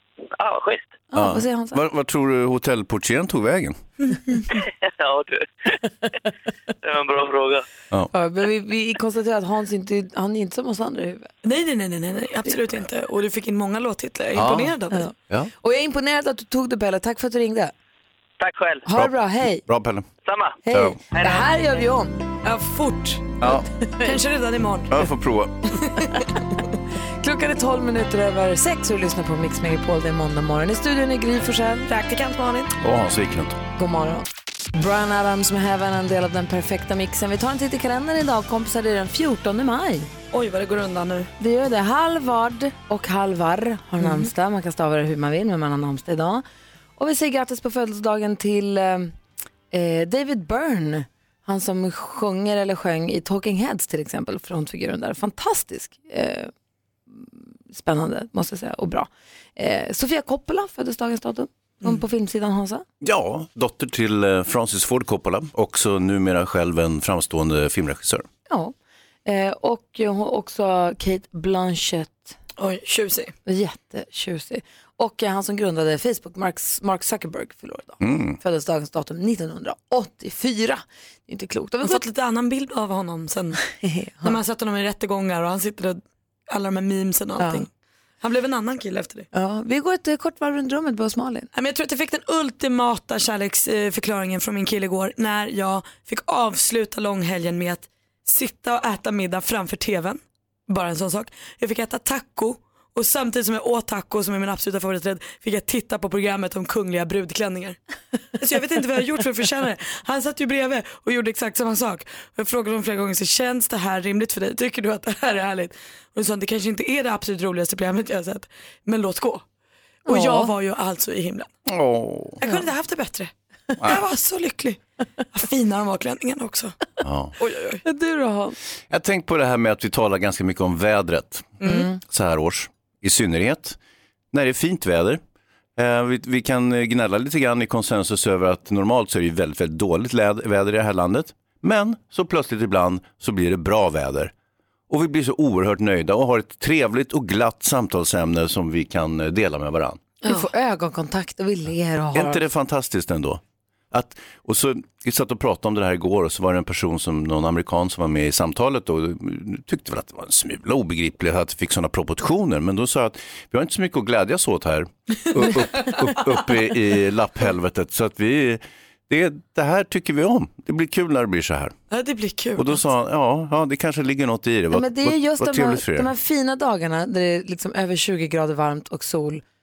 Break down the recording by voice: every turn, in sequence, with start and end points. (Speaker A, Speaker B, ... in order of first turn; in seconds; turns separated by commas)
Speaker A: 0.3-0.9, Speaker B: 1.1-1.8, Speaker C: 1.1-3.8, Speaker A: 4.5-5.8, Speaker A: 6.8-7.7, Speaker B: 8.1-11.3, Speaker D: 11.4-15.0, Speaker C: 14.3-14.8, Speaker B: 14.9-17.7, Speaker A: 18.4-18.9, Speaker B: 18.9-19.6, Speaker C: 18.9-20.1, Speaker A: 20.2-21.5, Speaker B: 20.6-22.2, Speaker C: 20.7-21.0, Speaker D: 22.4-23.5, Speaker C: 23.4-23.7, Speaker B: 23.8-24.1, Speaker D: 24.0-25.0, Speaker C: 24.9-25.6, Speaker D: 25.9-26.3, Speaker B: 27.2-31.9, Speaker D: 31.9-32.7, Speaker C: 32.8-33.6, Speaker B: 33.8-40.1, Speaker D: 40.3-41.3, Speaker B: 41.4-46.4, Speaker D: 44.0-44.3, Speaker B: 47.0-49.1, Speaker B: 49.7-56.5, Speaker B: 57.1-62.8, Speaker C: 63.0-68.3, Speaker B: 68.5-68.7, Speaker B: 69.2-72.3, Speaker D: 72.6-73.3, Speaker B: 73.5-82.0, Speaker C: 78.0-78.4, Speaker D: 81.8-83.6, Speaker B: 83.8-84.3, Speaker D: 84.2-87.7, Speaker B: 87.4-87.6, Speaker D: 88.2-89.2, Speaker B: 89.3-91.5, Speaker D: 91.5-107.8, Speaker D: 108.4-119.4, Speaker D: 120.0-121.5, Speaker B: 120.1-120.5, Speaker C: 121.7-122.4, Speaker D: 122.4-123.3, Speaker D: 123.8-124.8, Speaker D: 125.3-126.8, Speaker C: 127.0-127.3, Speaker D: 127.4-127.8, Speaker B: 127.8-128.6, Speaker C: 128.9-133.8, Speaker D: 131.6-131.9, Speaker B: 131.6-132.0, Speaker C: 134.3-135.2, Speaker C: 135.8-144.3, Speaker C: 144.9-150.0, Speaker B: 150.2-152.4, Speaker C: 152.1-153.4, Speaker C: 153.9-171.7, Speaker D: 171.9-172.8, Speaker C: 172.6-176.1, Speaker B: 174.7-179.4